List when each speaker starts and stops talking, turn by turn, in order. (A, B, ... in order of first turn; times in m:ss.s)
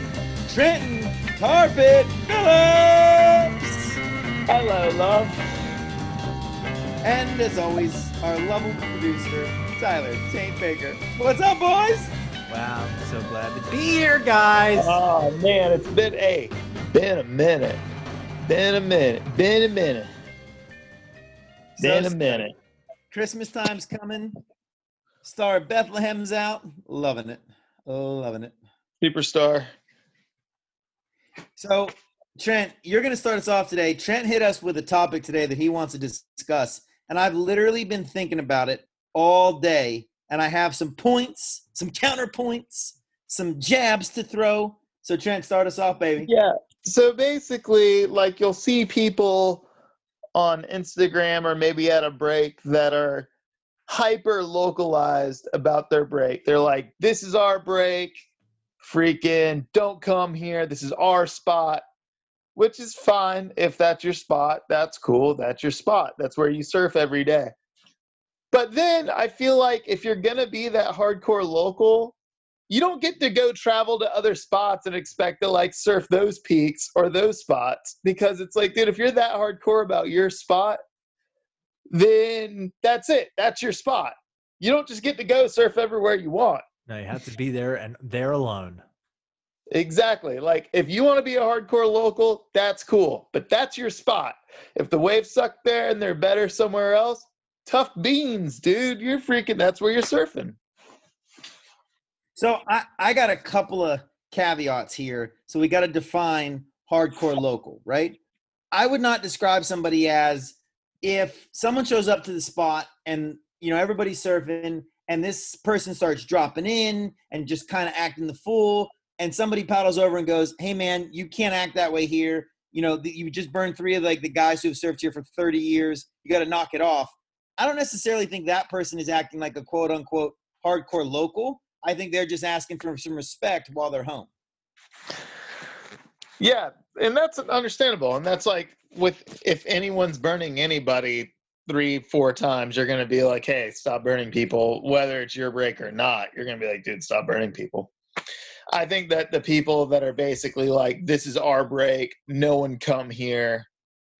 0:00.5-0:04.0 A
0:04.5-0:05.6 B
0:07.0-0:12.1 A
0:12.5-0:15.0 C
0:14.7-0:17.8 B
0:18.5-0:20.1 B
0:21.8-0:22.5 A
0:21.8-0:22.5 B
0:23.1-0:24.4 A
0:25.2-0:28.5 A
0:29.0-0:29.7 B
0:31.6-0:46.3 A
0:46.2-0:49.6 B
0:50.3-0:53.3 B
0:53.9-0:58.2 B
0:58.8-1:01.8 B
1:02.6-1:07.5 B
1:08.5-1:12.1 B
1:12.7-1:20.8 B
1:21.9-1:26.6 B
1:26.9-1:28.8 C
1:29.7-1:40.6 B
1:42.4-1:48.2 A
1:48.7-2:14.3 A
2:16.4-2:27.9 B
2:28.7-2:33.7 B